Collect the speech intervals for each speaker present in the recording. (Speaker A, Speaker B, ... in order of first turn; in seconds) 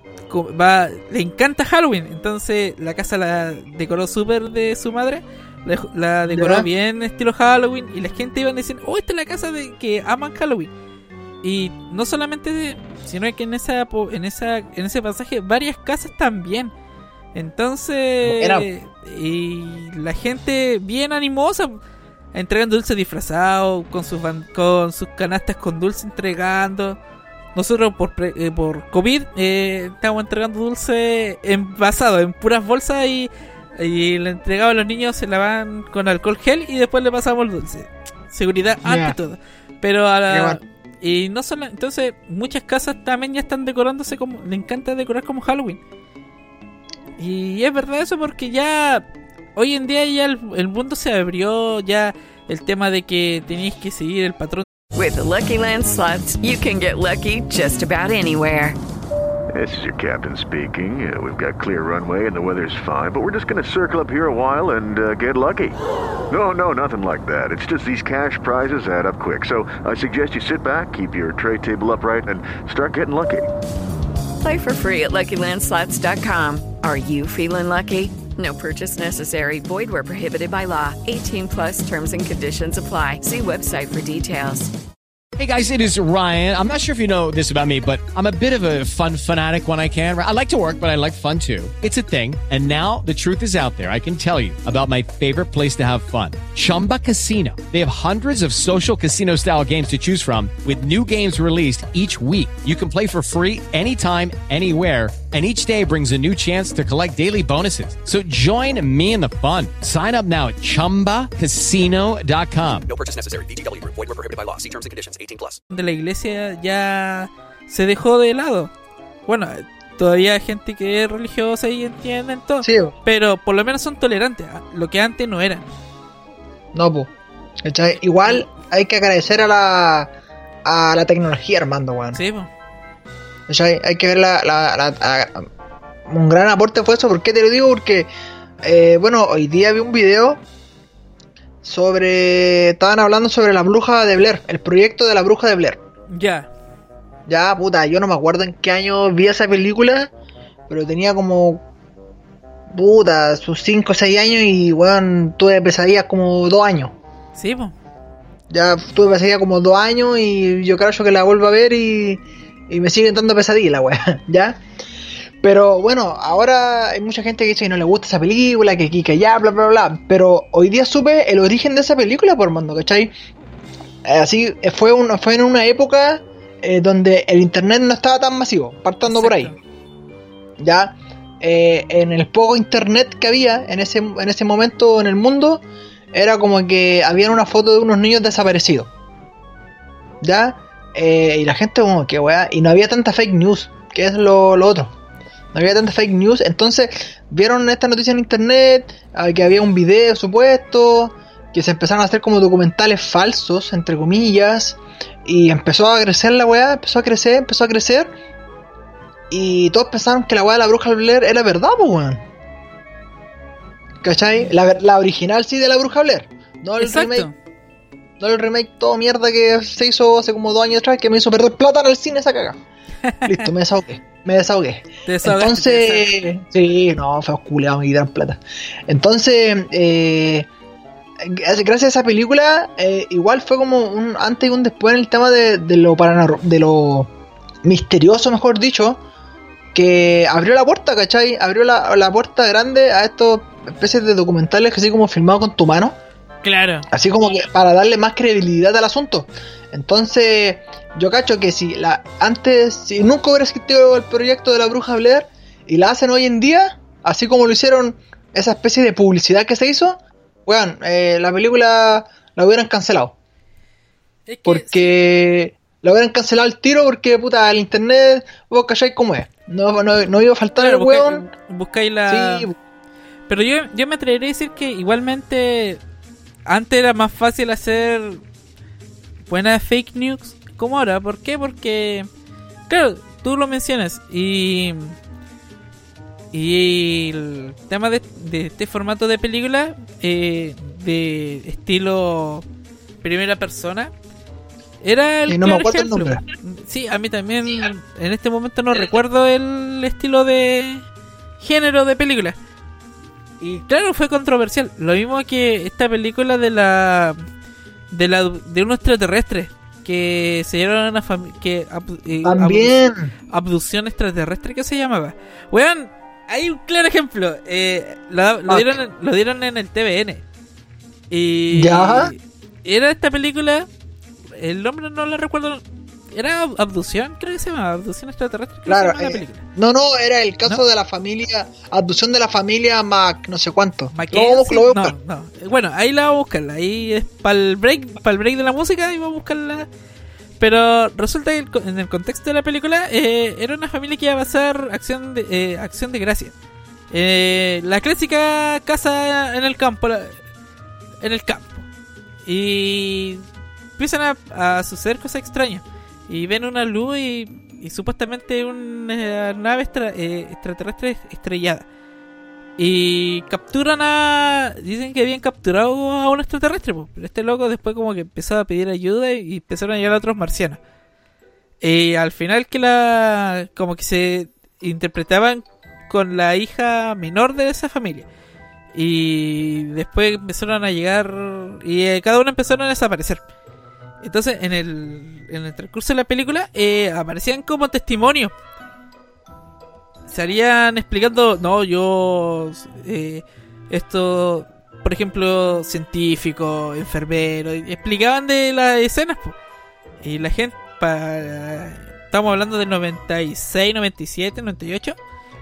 Speaker A: 0.3-10.7, 11.4-16.7, 17.3-21.8, 22.3-27.0, 27.5-45.8, 47.2-54.6, 115.7-118.7, 119.2-125.7, 132.1-132.5, 146.1-146.5, 157.3-157.7, 179.1-179.6, 216.8-217.3, 223.1-223.5, 225.1-226.1, 246.4-246.9, 264.3-265.0, 270.6-272.5, 273.3-275.8, 276.5-278.2, 279.3-282.1, 282.7-284.9, 286.3-292.4, 293.0-293.9, 294.8-300.8, 301.4-302.4, 303.4-307.2, 307.9-312.8, 313.3-320.2, 321.1-323.7, 324.3-329.4, 333.9-339.7, 340.4-346.3, 346.9-350.1, 351.0-351.6, 352.2-353.2, 353.8-361.6, 362.6-370.6, 371.6-378.1, 378.7-383.2, 384.0-388.3, 390.1-399.4, 400.0-404.9
Speaker B: 6.3-6.7, 18.2-18.7, 38.8-39.1, 40.3-40.6, 122.6-122.9, 126.7-127.1, 127.6-130.1, 130.6-132.2, 133.5-135.5, 136.1-138.1, 138.6-140.4, 141.6-145.8, 147.3-150.1, 150.7-151.6, 152.7-156.9, 158.5-164.6, 165.4-173.1, 174.0-179.5, 180.6-188.9, 190.2-194.9, 195.5-208.1, 209.3-212.2, 214.0-217.3, 218.2-222.6, 223.2-230.5, 231.2-237.1, 237.6-239.0, 239.7-246.0, 246.9-263.1, 264.4-271.2, 272.1-272.6, 295.3-296.2, 312.2-313.1, 318.5-318.8, 321.5-322.1, 328.7-334.9
Speaker C: 54.9-58.8, 74.4-84.7
Speaker D: 59.5-65.8, 66.3-73.5
Speaker E: 85.4-112.9
Speaker F: 112.8-115.6